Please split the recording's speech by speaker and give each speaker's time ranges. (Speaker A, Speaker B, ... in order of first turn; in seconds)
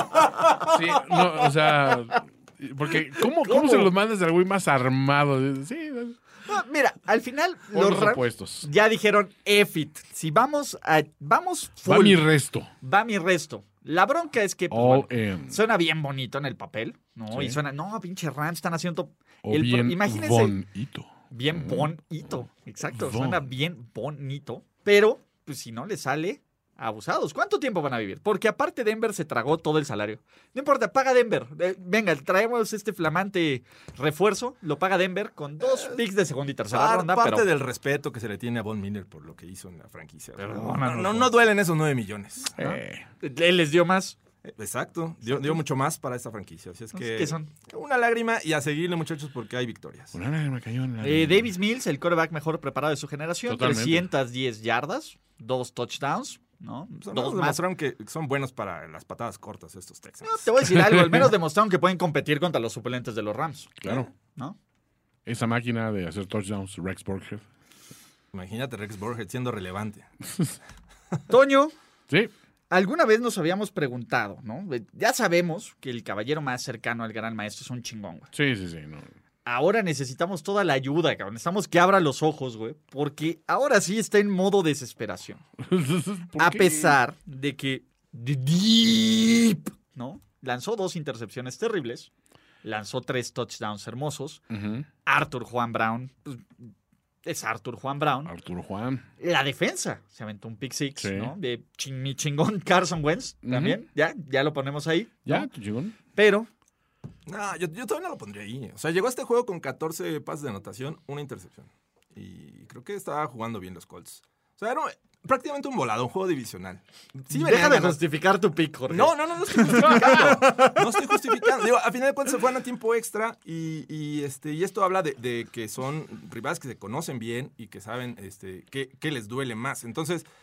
Speaker A: 0.6-6.2, 7.7-8.7, 11.8-12.7, 14.7-15.6, 17.3-17.6, 19.4-21.9, 22.9-23.4, 42.6-43.0, 50.1-51.5, 53.5-54.1, 60.9-61.2, 63.8-64.1, 65.3-67.4, 78.3-79.1, 85.6-87.0, 94.5-94.9, 98.3-99.0, 101.0-101.3, 103.5-103.8, 105.3-106.0
Speaker B: 3.4-3.9, 6.5-12.2, 12.8-20.6, 21.3-37.5, 40.4-41.3, 42.6-44.2, 45.3-45.6, 46.9-47.5, 51.0-57.6, 60.2-64.6, 71.3-71.7, 72.7-78.3, 79.5-85.4, 86.4-92.1, 92.6-94.4, 95.1-96.7, 97.2-98.3, 99.2-105.5, 106.2-106.5, 117.3-121.2
Speaker C: 35.6-36.0, 36.7-42.5, 44.4-50.2, 57.0-60.4, 68.3-70.1, 107.3-118.0, 118.9-130.3